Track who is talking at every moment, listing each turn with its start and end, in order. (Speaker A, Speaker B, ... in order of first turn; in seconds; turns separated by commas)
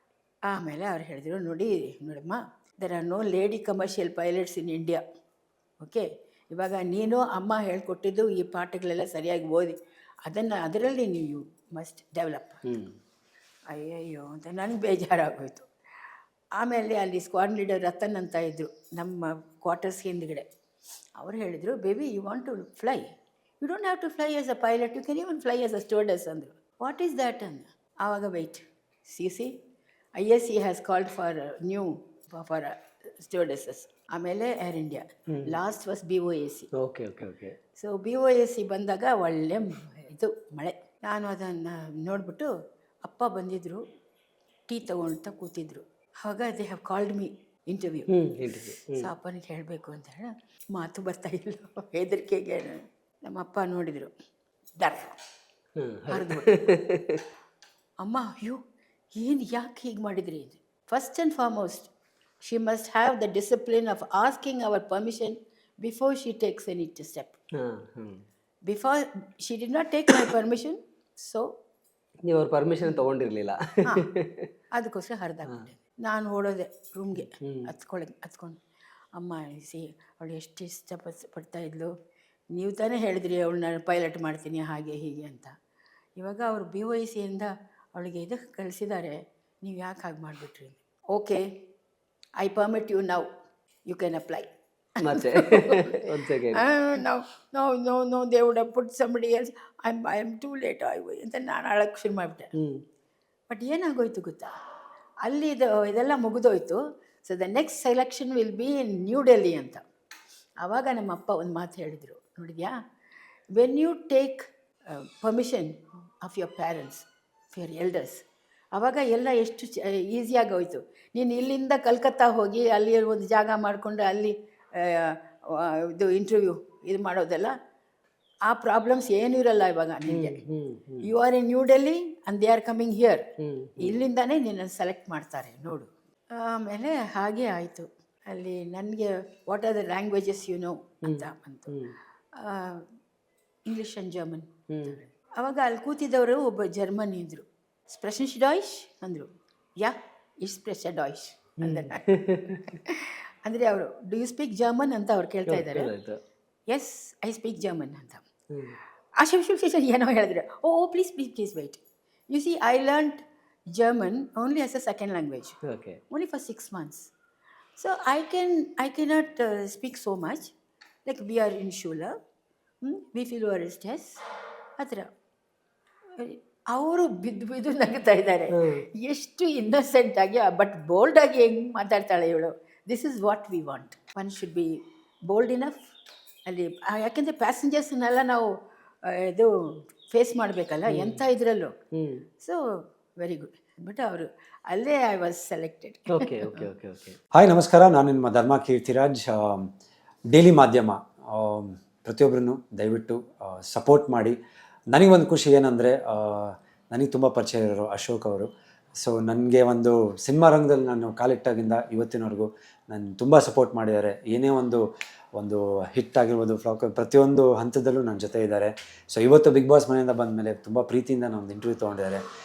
Speaker A: 0.5-5.0, Speaker A: 5.8-12.6, Speaker B: 12.7-12.9, Speaker A: 13.7-15.7, Speaker A: 16.6-20.5, Speaker A: 21.2-23.1, Speaker A: 23.6-29.5, Speaker A: 30.2-36.7, Speaker B: 36.8-37.5, Speaker A: 37.8-42.5, Speaker A: 43.0-43.8, Speaker A: 44.7-48.1, Speaker B: 48.1-49.1, Speaker A: 49.0-54.1, Speaker A: 54.8-55.2, Speaker B: 55.8-57.2, Speaker A: 56.1-56.7, Speaker A: 58.0-58.6, Speaker A: 59.1-61.9, Speaker A: 62.4-67.4, Speaker B: 67.6-68.2, Speaker A: 68.7-71.5, Speaker B: 72.3-74.5, Speaker A: 74.7-78.6, Speaker B: 77.2-77.7, Speaker A: 79.2-81.9, Speaker A: 82.5-85.5, Speaker A: 86.2-91.4, Speaker A: 92.4-93.3, Speaker A: 93.9-94.5, Speaker B: 95.0-96.7, Speaker A: 95.1-102.5, Speaker A: 103.5-104.5, Speaker A: 105.2-109.8, Speaker A: 110.6-112.8, Speaker A: 113.5-118.2, Speaker A: 118.7-127.5, Speaker A: 128.5-130.4, Speaker B: 130.1-131.1, Speaker A: 131.0-133.2, Speaker B: 133.4-134.0, Speaker A: 133.8-141.8, Speaker B: 141.0-141.9, Speaker A: 142.4-142.8, Speaker A: 143.7-152.0, Speaker B: 144.7-145.0, Speaker B: 151.6-152.8, Speaker A: 152.7-155.9, Speaker B: 155.5-156.2, Speaker A: 156.7-158.2, Speaker B: 158.5-158.8, Speaker A: 159.2-163.2, Speaker A: 163.8-165.6, Speaker B: 165.7-166.0, Speaker A: 166.1-167.1, Speaker A: 167.8-170.5, Speaker A: 171.1-172.1, Speaker A: 172.8-174.2, Speaker A: 174.8-175.1, Speaker A: 176.2-184.7, Speaker B: 178.6-178.8, Speaker A: 185.3-185.8, Speaker A: 186.5-188.5, Speaker A: 189.1-189.5, Speaker A: 190.1-191.8, Speaker B: 190.9-191.2, Speaker B: 192.0-192.2, Speaker A: 193.2-196.6, Speaker B: 196.1-197.2, Speaker C: 197.3-199.7, Speaker C: 200.3-204.4, Speaker C: 204.9-214.8, Speaker C: 215.4-222.2